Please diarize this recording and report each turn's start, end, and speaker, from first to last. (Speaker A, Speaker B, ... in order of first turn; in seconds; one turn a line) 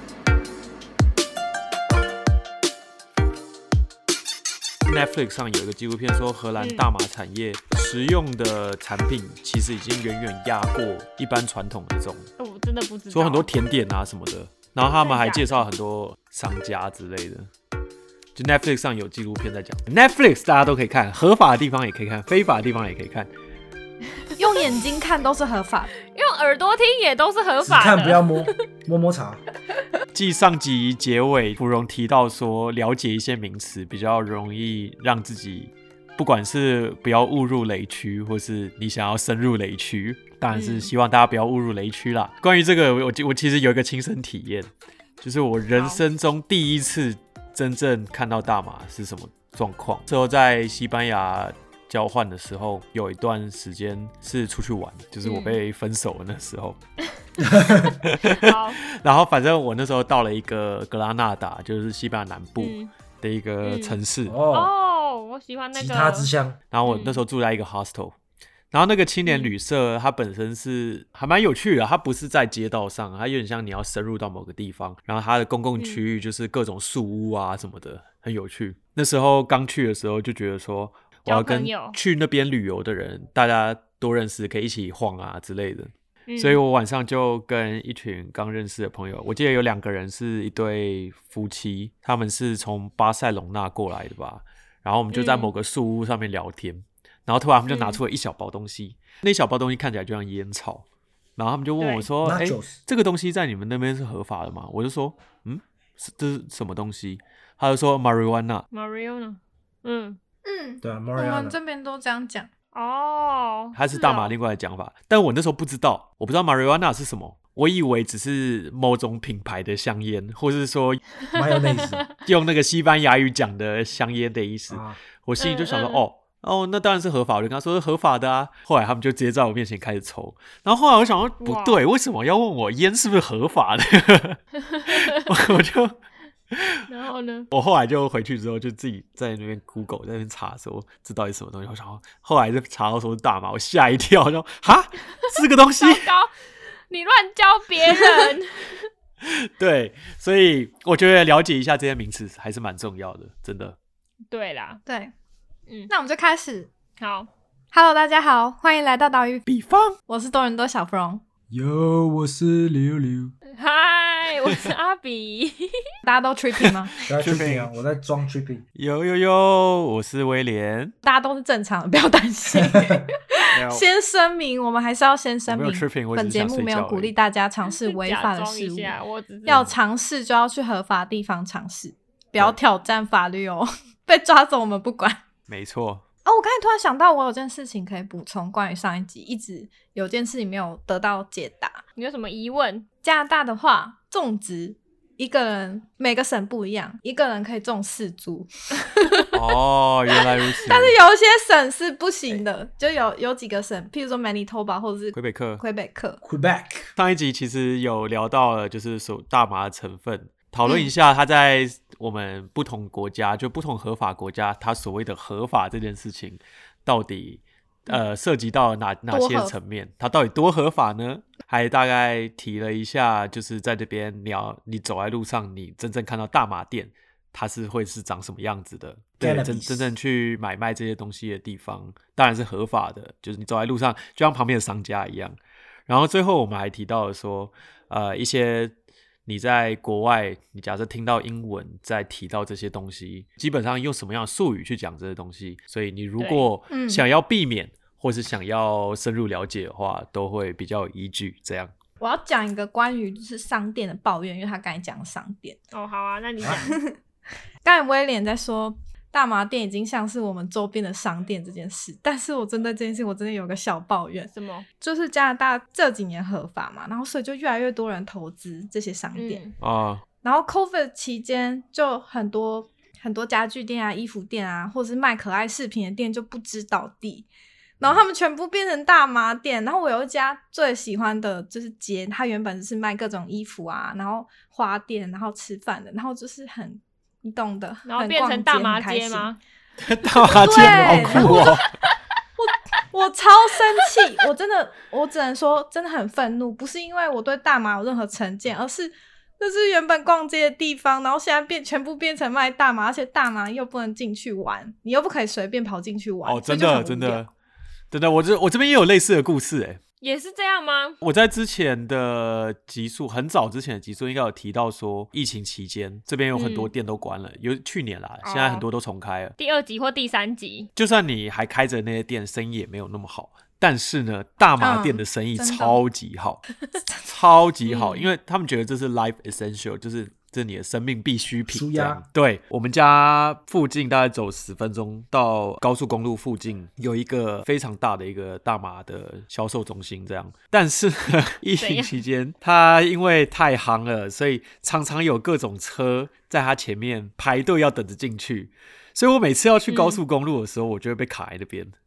Speaker A: 4.9-12.3
Speaker B: 6.6-6.9
Speaker B: 12.4-13.5
Speaker A: 13.1-17.5
Speaker B: 14.9-15.7
Speaker A: 18.4-23.3
Speaker C: 24.4-25.9
Speaker B: 26.1-28.6
Speaker D: 27.6-29.4
Speaker A: 30.1-44.7
Speaker A: 45.2-56.8
Speaker B: 45.8-46.0
Speaker B: 55.2-55.6
Speaker B: 57.4-58.8
Speaker D: 57.4-58.0
Speaker A: 58.0-64.4
Speaker B: 62.6-62.9
Speaker B: 63.6-66.3
Speaker D: 64.3-64.7
Speaker D: 65.7-66.6
Speaker A: 66.7-68.2
Speaker B: 66.8-67.2
Speaker A: 68.7-100.8
Speaker B: 69.3-69.5
Speaker B: 81.3-82.0
Speaker B: 86.3-86.6
Speaker B: 95.1-95.5
Speaker B: 97.7-98.0
Speaker A: 101.4-108.7
Speaker B: 101.8-102.1
Speaker D: 102.2-102.8
Speaker B: 108.7-110.2
Speaker C: 110.5-112.5
Speaker D: 110.8-111.6
Speaker B: 112.7-114.3
Speaker A: 113.8-121.0
Speaker B: 121.2-122.1
Speaker D: 121.3-122.1
Speaker A: 122.2-136.0
Speaker D: 124.7-125.0
Speaker B: 125.4-126.0
Speaker B: 131.4-131.8
Speaker B: 134.6-135.1
Speaker A: 136.5-136.8
Speaker B: 136.9-137.5
Speaker A: 137.5-146.1
Speaker B: 145.8-146.3
Speaker B: 146.9-148.9
Speaker C: 147.9-148.3
Speaker A: 149.2-153.8
Speaker B: 154.3-154.8
Speaker C: 154.9-155.1
Speaker C: 155.9-156.7
Speaker B: 157.0-157.3
Speaker C: 157.7-159.4
Speaker A: 159.5-160.0
Speaker C: 160.1-161.2
Speaker D: 161.5-163.3
Speaker B: 163.5-165.8
Speaker C: 166.0-166.9
Speaker A: 166.6-167.7
Speaker D: 167.1-168.6
Speaker A: 168.8-170.9
Speaker C: 171.0-185.2
Speaker D: 172.5-173.1
Speaker A: 173.5-173.9
Speaker A: 175.5-177.1
Speaker B: 177.7-179.7
Speaker A: 185.5-186.0
Speaker C: 186.2-191.8
Speaker B: 192.0-192.9
Speaker C: 193.0-199.4
Speaker A: 199.3-201.0
Speaker C: 200.4-206.2
Speaker A: 205.1-205.6
Speaker D: 206.2-206.9
Speaker A: 207.0-235.4
Speaker C: 219.1-219.5
Speaker D: 229.2-229.9
Speaker A: 235.9-238.7
Speaker A: 239.3-251.7
Speaker B: 246.2-246.5
Speaker C: 246.7-247.0
Speaker C: 252.0-255.6
Speaker B: 255.7-256.8
Speaker C: 256.4-257.0
Speaker C: 257.6-269.4
Speaker B: 264.3-264.7
Speaker B: 269.1-269.6
Speaker A: 269.6-270.0
Speaker C: 270.2-277.3
Speaker C: 277.8-289.3
Speaker B: 287.9-289.4
Speaker A: 289.8-291.7
Speaker C: 290.2-291.5
Speaker B: 290.5-291.9
Speaker D: 290.7-291.2
Speaker C: 292.4-307.3
Speaker A: 306.2-307.3
Speaker A: 307.9-309.8
Speaker B: 310.0-311.0
Speaker A: 311.0-319.3
Speaker B: 316.3-316.7
Speaker B: 318.2-318.7
Speaker B: 319.4-320.7
Speaker A: 320.8-326.4
Speaker C: 324.6-325.8
Speaker A: 327.1-351.8
Speaker B: 327.7-328.1
Speaker D: 331.5-332.0
Speaker B: 341.6-342.0
Speaker B: 349.7-350.0